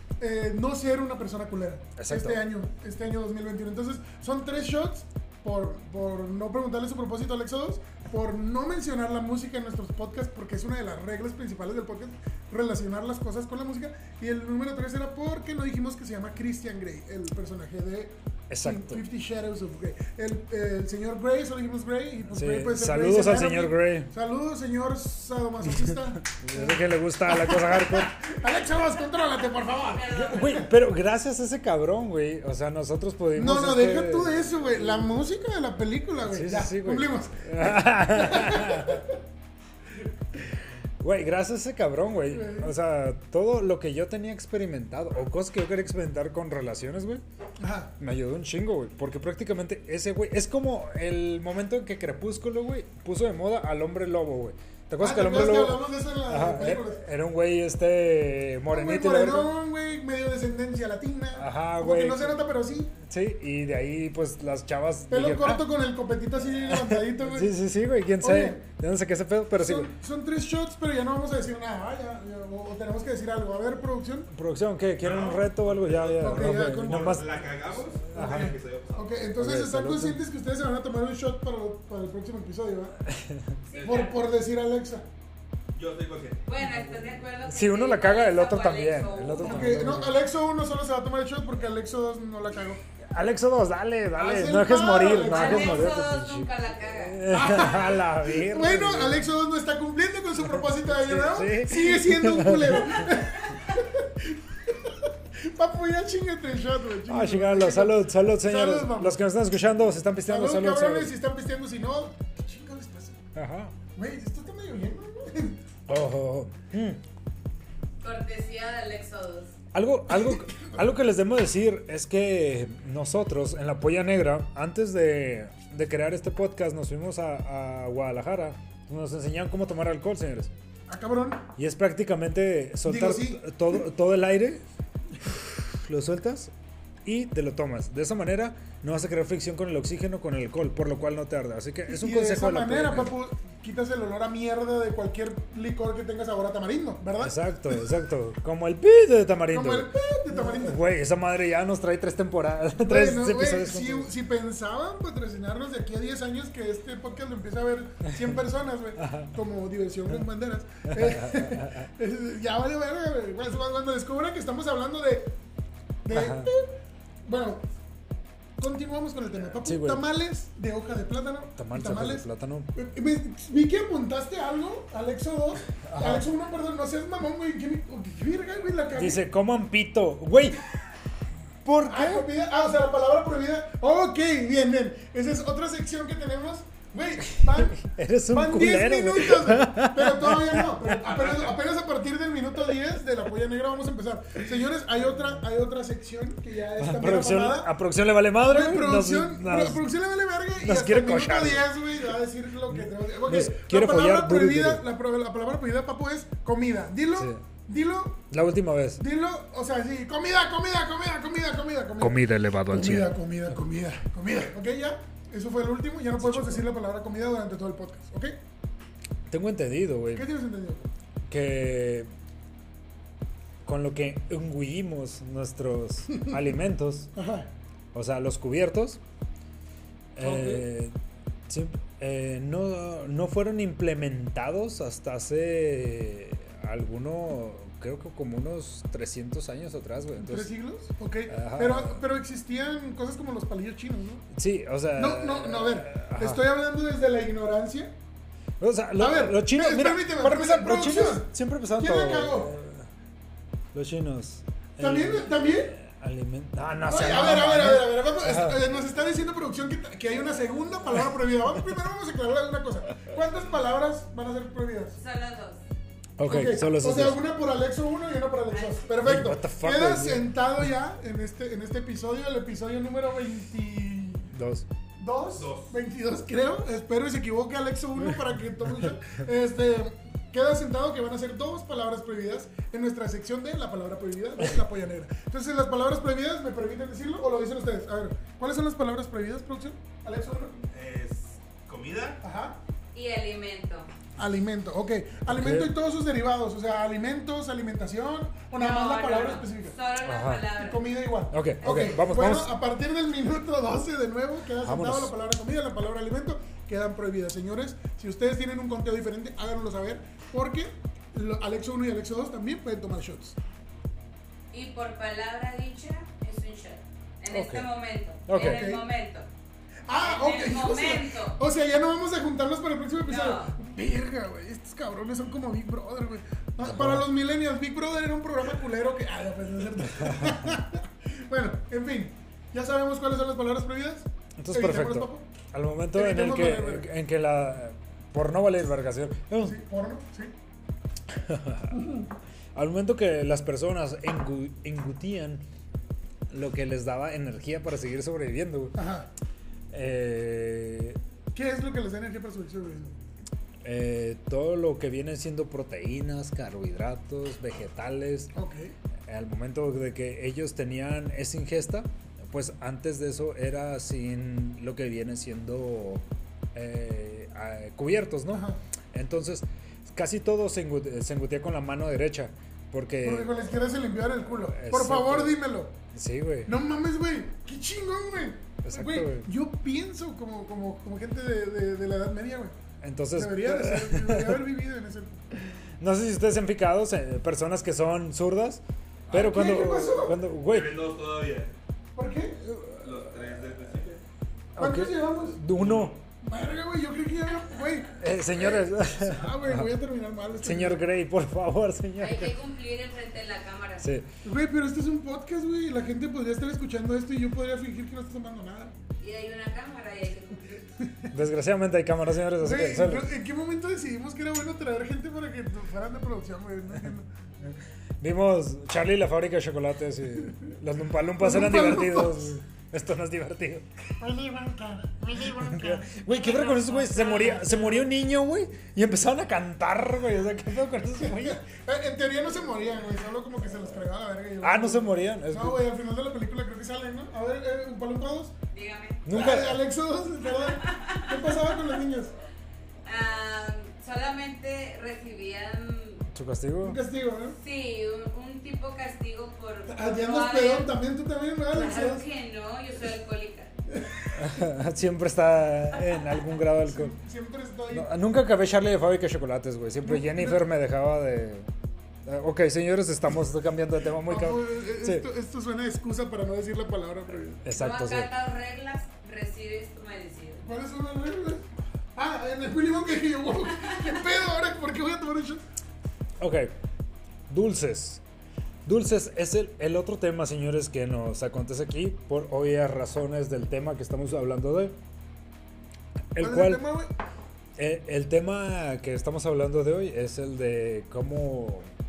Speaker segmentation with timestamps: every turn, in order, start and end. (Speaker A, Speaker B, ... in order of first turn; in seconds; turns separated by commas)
Speaker A: 0.2-30.5, Speaker B: 2.0-2.5, Speaker B: 18.5-19.0, Speaker B: 22.3-24.1, Speaker B: 25.7-28.2, Speaker C: 29.7-30.7, Speaker B: 30.1-34.4, Speaker A: 33.3-39.2, Speaker B: 36.2-39.0, Speaker B: 41.0-47.2, Speaker A: 42.3-42.7, Speaker A: 47.6-47.9, Speaker B: 48.0-59.5, Speaker A: 55.0-57.0, Speaker A: 58.7-62.9, Speaker B: 61.4-62.4, Speaker B: 63.0-65.6, Speaker A: 65.1-67.5, Speaker B: 66.7-69.9, Speaker A: 68.2-68.6, Speaker A: 69.6-74.3, Speaker B: 74.3-77.5, Speaker D: 75.0-79.1, Speaker A: 76.2-77.2, Speaker B: 78.0-78.5, Speaker A: 78.1-83.0, Speaker B: 79.4-80.2, Speaker B: 83.0-83.6, Speaker C: 83.7-84.2, Speaker D: 83.8-84.1, Speaker A: 83.8-85.1, Speaker D: 85.7-86.5, Speaker C: 86.5-89.8, Speaker B: 87.4-90.2, Speaker A: 89.4-92.8, Speaker B: 93.0-99.3, Speaker A: 94.2-95.9, Speaker C: 95.1-97.3, Speaker A: 97.3-109.2, Speaker B: 100.5-103.1, Speaker B: 107.1-111.1, Speaker A: 110.3-113.2, Speaker B: 113.3-113.7, Speaker A: 114.0-115.6, Speaker B: 115.9-117.0, Speaker C: 118.0-119.5, Speaker B: 119.7-130.5, Speaker A: 130.9-131.4, Speaker B: 131.6-134.7, Speaker A: 132.8-133.5, Speaker B: 135.3-136.5, Speaker B: 137.0-143.2, Speaker A: 141.9-147.8, Speaker B: 147.2-154.1, Speaker A: 149.5-150.8, Speaker A: 152.8-165.3, Speaker B: 158.1-158.4, Speaker B: 159.0-159.4, Speaker B: 160.9-161.8, Speaker A: 166.0-166.7, Speaker B: 166.1-166.5, Speaker A: 167.3-167.7, Speaker A: 168.6-179.2, Speaker B: 169.6-170.1, Speaker B: 171.6-172.7, Speaker B: 175.8-176.3, Speaker B: 178.9-180.6, Speaker B: 181.6-182.3, Speaker A: 181.8-187.8, Speaker B: 187.4-191.0, Speaker A: 188.3-197.7, Speaker D: 190.9-191.6, Speaker B: 196.8-199.9, Speaker A: 198.5-208.2, Speaker B: 200.6-201.7, Speaker B: 202.7-204.8, Speaker B: 207.2-207.4, Speaker B: 208.3-209.0, Speaker A: 209.0-218.4, Speaker B: 212.0-213.1, Speaker B: 216.2-216.7, Speaker B: 219.3-220.2, Speaker A: 220.1-220.9, Speaker B: 221.3-222.1, Speaker B: 223.6-227.1, Speaker A: 227.2-227.5, Speaker B: 227.9-229.0, Speaker B: 230.2-230.9, Speaker A: 230.2-230.7, Speaker B: 231.5-240.5, Speaker A: 240.2-244.3, Speaker B: 241.3-242.0, Speaker B: 244.3-246.5, Speaker A: 245.0-247.9, Speaker B: 248.6-252.9, Speaker A: 249.0-252.5, Speaker B: 253.7-258.6, Speaker A: 254.8-255.8, Speaker A: 256.9-265.0, Speaker C: 265.0-265.6, Speaker B: 266.2-267.2, Speaker A: 266.2-274.3, Speaker C: 268.5-268.9, Speaker B: 269.0-270.3, Speaker B: 274.3-274.7, Speaker A: 275.0-290.5, Speaker D: 275.4-275.7, Speaker D: 290.4-292.2, Speaker A: 292.2-292.6, Speaker C: 292.9-293.9, Speaker A: 294.2-299.8, Speaker B: 295.3-295.7, Speaker C: 298.6-300.9, Speaker B: 300.0-300.5, Speaker A: 300.6-313.4, Speaker B: 301.3-302.5, Speaker C: 301.6-301.9, Speaker B: 304.6-305.1, Speaker C: 314.5-319.3, Speaker B: 317.3-317.7, Speaker B: 318.3-318.7, Speaker A: 318.4-318.8, Speaker A: 319.9-335.3, Speaker C: 320.0-321.4, Speaker C: 323.1-323.6, Speaker B: 326.6-327.1, Speaker B: 330.0-330.5, Speaker B: 334.4-339.6, Speaker A: 335.9-336.9, Speaker A: 339.4-340.3, Speaker B: 341.1-341.8, Speaker B: 342.6-345.4, Speaker B: 346.3-348.8, Speaker A: 348.8-349.1, Speaker B: 349.7-351.0, Speaker A: 351.3-352.9, Speaker B: 353.6-358.3, Speaker A: 358.3-358.8, Speaker B: 359.1-373.4, Speaker A: 368.3-368.6, Speaker A: 373.0-375.7, Speaker B: 374.5-375.4, Speaker B: 375.9-376.5, Speaker A: 376.5-382.6, Speaker B: 378.6-379.3, Speaker B: 382.8-384.4, Speaker A: 383.1-385.4, Speaker B: 385.8-390.8, Speaker A: 389.1-390.2, Speaker D: 390.5-391.5, Speaker A: 392.0-392.4, Speaker B: 392.4-392.8, Speaker D: 392.8-394.0, Speaker B: 394.6-396.0, Speaker A: 394.6-395.4, Speaker D: 395.6-396.0, Speaker A: 396.2-400.8, Speaker B: 398.0-399.7, Speaker B: 400.4-402.3, Speaker C: 402.0-403.9, Speaker B: 403.8-404.1, Speaker A: 404.2-408.7, Speaker C: 409.0-410.7, Speaker A: 410.8-411.1, Speaker B: 411.1-413.1, Speaker A: 412.4-417.1, Speaker B: 417.5-423.6, Speaker A: 421.2-422.4, Speaker A: 424.0-427.8, Speaker B: 425.3-431.4, Speaker C: 426.8-427.5, Speaker A: 431.0-438.3, Speaker B: 434.4-435.6, Speaker C: 438.5-439.0, Speaker B: 439.1-439.6, Speaker A: 439.1-442.1, Speaker C: 440.4-441.8, Speaker C: 442.9-446.0, Speaker B: 446.1-446.8, Speaker A: 446.6-447.4, Speaker C: 447.4-450.7, Speaker A: 449.7-452.0, Speaker C: 451.5-453.5, Speaker A: 453.7-454.2, Speaker B: 454.1-456.9, Speaker A: 456.6-457.9, Speaker B: 457.7-461.5, Speaker A: 459.9-460.4, Speaker B: 462.1-465.1, Speaker A: 464.1-467.4, Speaker B: 467.4-468.1, Speaker C: 467.5-470.4, Speaker A: 470.4-475.4, Speaker B: 476.2-476.5, Speaker B: 477.3-478.0, Speaker B: 478.6-484.8, Speaker B: 486.1-486.6, Speaker A: 486.2-486.9, Speaker B: 487.6-491.7